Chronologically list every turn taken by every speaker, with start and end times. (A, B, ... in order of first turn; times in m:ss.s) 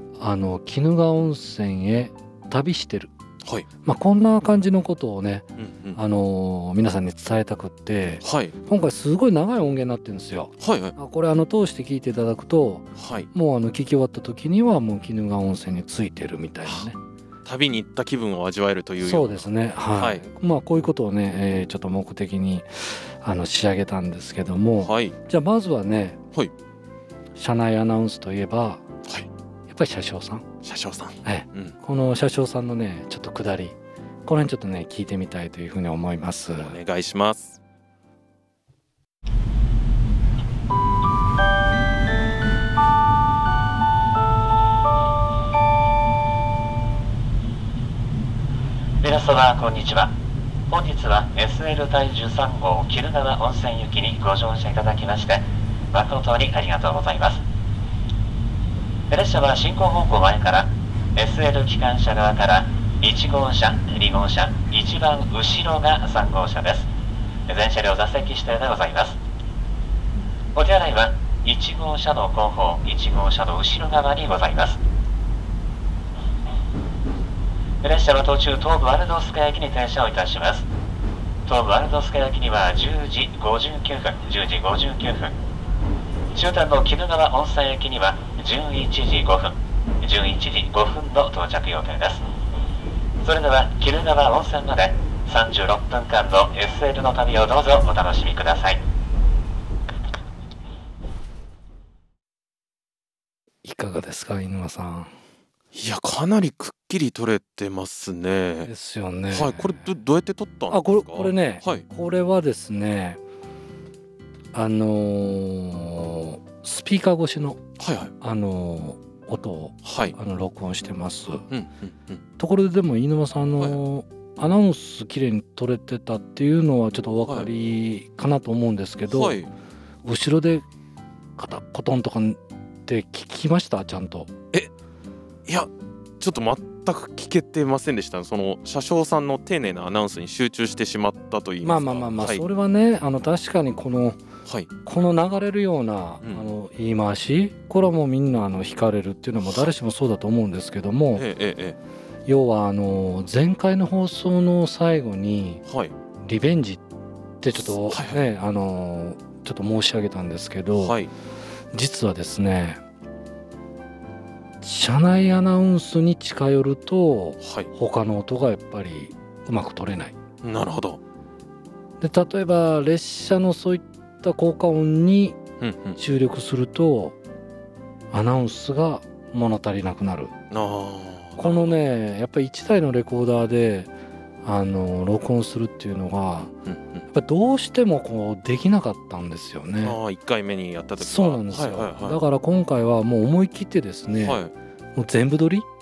0:00.2-0:03.1 A
0:03.8-0:17.0 A
0:05.6-0:06.0 B
0:08.2-0:08.5 B
0:10.6-0:10.9 B
0:13.0-0:13.3 B
0:17.4-0:20.2 B
0:19.0-0:26.2 A
0:24.8-0:25.2 B
0:27.4-0:28.8 A
0:29.7-0:30.5 A
0:30.6-0:31.7 B
0:31.2-0:36.8 A
0:36.6-0:37.6 B
0:49.0-0:50.2 C
0:50.7-0:57.4 C
0:59.1-1:06.9 C
1:07.5-1:09.2 C
1:10.5-1:14.8 C
1:17.8-1:20.7 C
1:21.4-1:25.4 C
1:26.3-1:32.2 C
1:33.2-1:38.8 C
1:43.6-1:45.1 A
1:45.7-1:48.7 B
1:48.6-1:49.8 A
1:49.3-1:51.8 B
1:50.7-1:53.2 A
1:54.5-1:57.6 A
1:57.8-1:58.1 B
1:58.2-2:01.4 A
1:59.8-2:00.1 B
2:01.5-2:02.2 B
2:02.4-2:09.4 A
2:09.1-2:09.5 B
2:10.0-2:10.6 A
2:11.4-2:14.3 A
2:15.4-2:22.4 B
2:21.6-2:24.2 A
2:24.8-2:31.2 A
2:26.2-2:26.5 B
2:31.1-2:31.8 B
2:32.2-2:35.6 A
2:35.7-2:35.9 B
2:36.2-2:36.8 A
2:37.4-2:41.0 A
2:37.6-2:38.2 B
2:40.8-2:41.1 B
2:41.7-2:42.8 A
2:44.6-2:50.1 A
2:47.4-2:47.7 B
2:50.4-2:51.0 B
2:52.0-2:55.4 A
2:55.6-2:56.0 B
2:56.0-2:57.2 A
2:58.1-3:00.3 A
3:00.5-3:01.8 B
3:01.4-3:03.9 A
3:04.4-3:06.5 A
3:06.6-3:07.0 B
3:07.1-3:10.0 A
3:09.8-3:12.2 B
3:11.0-3:14.4 A
3:14.2-3:14.5 B
3:14.9-3:15.7 A